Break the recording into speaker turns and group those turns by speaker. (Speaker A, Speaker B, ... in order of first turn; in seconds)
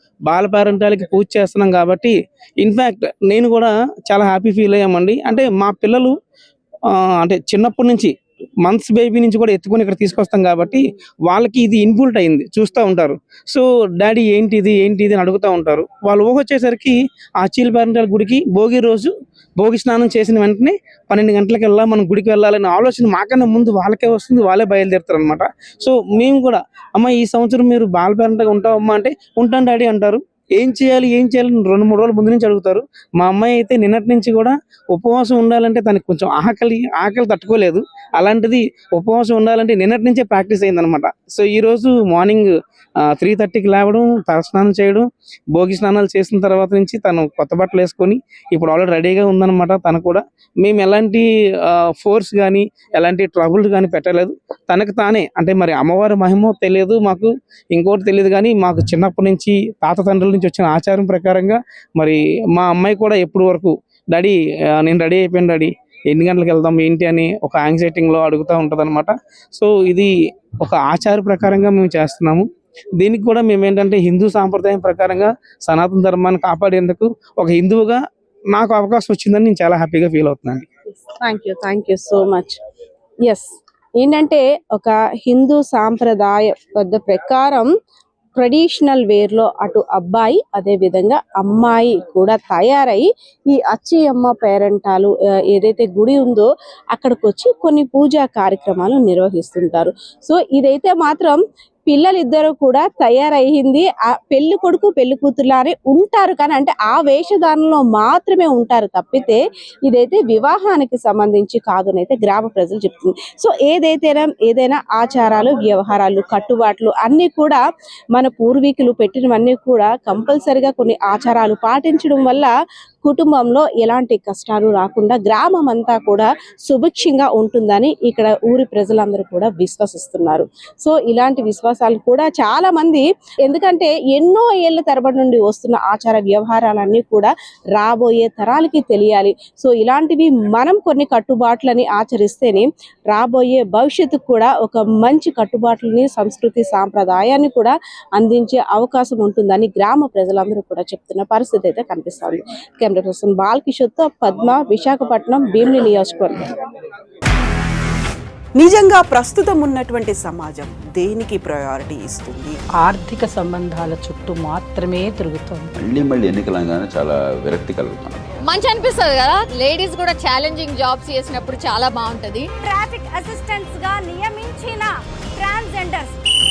Speaker A: 0.3-6.2, 7.2-8.1, 8.7-42.5, 43.1-72.5, 73.0-78.0, 78.5-80.7
Speaker B: 81.0-82.6, 84.0-87.7, 88.4-117.6, 118.1-122.5, 123.0-156.5, 172.6-176.2
Speaker C: 158.6-162.6
Speaker D: 162.8-165.7
Speaker E: 165.8-168.2
Speaker F: 168.4-172.5